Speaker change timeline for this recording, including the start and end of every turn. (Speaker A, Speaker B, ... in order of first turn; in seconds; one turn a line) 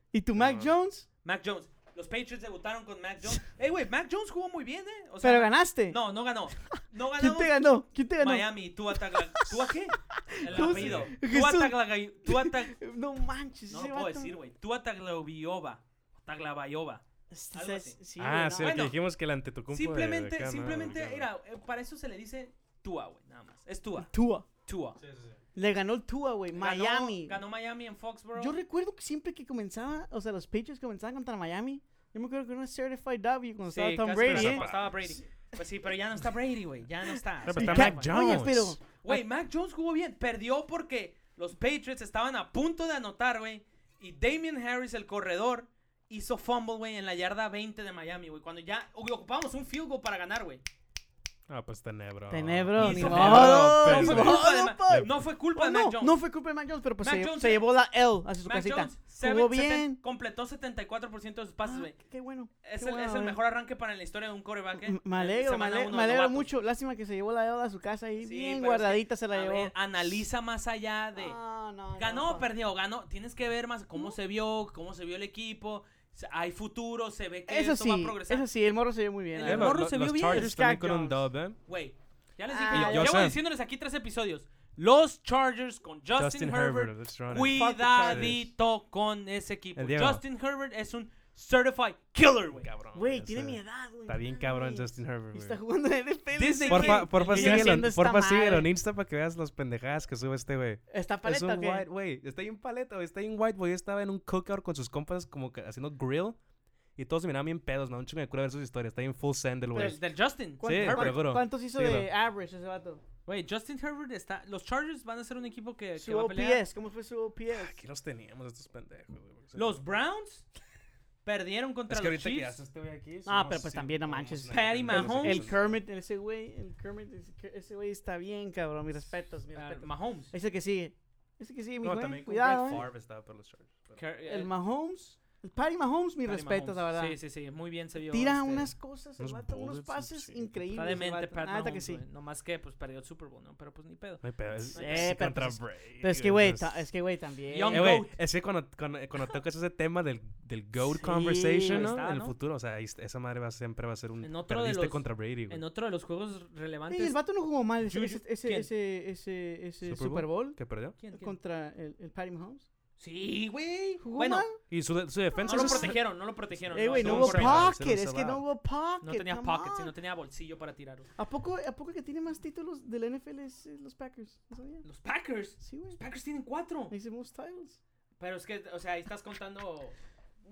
Speaker A: 0.1-1.1
Speaker B: 0.4-0.7
Speaker C: 1.2-7.7
Speaker A: 5.2-6.0
Speaker A: 6.7-14.4
Speaker C: 8.2-12.8
Speaker B: 10.5-11.1
Speaker C: 13.7-18.0
Speaker A: 17.3-18.8
Speaker B: 18.2-21.3
Speaker C: 18.6-18.9
Speaker C: 19.7-24.1
Speaker A: 24.1-24.5
Speaker C: 24.6-25.0
Speaker B: 25.0-25.4
Speaker A: 25.6-27.4
Speaker C: 26.6-28.6
Speaker A: 28.4-34.7
Speaker C: 33.7-38.5
Speaker B: 34.2-35.1
Speaker B: 37.4-38.8
Speaker A: 37.5-39.2
Speaker C: 39.0-50.6
Speaker B: 51.5-55.1
Speaker A: 52.3-60.0
Speaker C: 52.8-56.2
Speaker C: 57.0-57.7
Speaker C: 58.4-62.0
Speaker A: 61.6-63.4
Speaker C: 62.6-66.5
Speaker A: 64.7-69.8
Speaker C: 68.2-71.4
Speaker A: 71.2-72.5
Speaker C: 71.9-78.5
Speaker A: 77.5-81.3
Speaker C: 79.3-80.5
Speaker B: 79.4-81.6
Speaker C: 81.7-92.7
Speaker A: 82.5-83.3
Speaker B: 82.7-83.4
Speaker B: 86.1-88.5
Speaker A: 87.4-88.4
Speaker B: 89.8-90.2
Speaker B: 92.6-95.6
Speaker A: 92.9-98.7
Speaker C: 96.3-97.9
Speaker B: 96.7-106.4
Speaker A: 100.9-101.8
Speaker B: 107.0-110.0
Speaker A: 109.7-110.0
Speaker C: 109.7-111.2
Speaker A: 110.6-113.0
Speaker B: 110.6-112.1
Speaker C: 113.3-116.6
Speaker A: 116.0-117.8
Speaker B: 117.5-119.8
Speaker C: 119.5-120.5
Speaker C: 121.2-122.6
Speaker B: 121.9-125.8
Speaker A: 123.3-132.9
Speaker C: 124.5-125.5
Speaker C: 129.5-130.3
Speaker B: 131.8-134.0
Speaker C: 133.9-134.5
Speaker A: 134.3-137.2
Speaker C: 136.2-138.7
Speaker A: 138.1-142.0
Speaker B: 139.2-140.8
Speaker C: 140.7-145.1
Speaker B: 144.2-146.8
Speaker A: 144.7-148.0
Speaker C: 147.5-148.1
Speaker B: 147.7-155.6
Speaker A: 150.9-152.0
Speaker C: 151.6-152.3
Speaker C: 154.2-157.2
Speaker A: 156.9-160.6
Speaker C: 157.8-158.7
Speaker B: 159.8-161.0
Speaker C: 161.0-161.4
Speaker A: 161.1-162.7
Speaker C: 163.0-164.5
Speaker A: 164.0-164.6
Speaker B: 164.7-166.1
Speaker A: 165.3-166.1
Speaker C: 165.4-167.7
Speaker A: 166.7-169.9
Speaker B: 166.8-168.4
Speaker C: 169.0-171.1
Speaker A: 171.2-174.8
Speaker C: 174.8-176.9
Speaker A: 175.6-176.0
Speaker A: 176.9-177.8
Speaker C: 178.2-179.9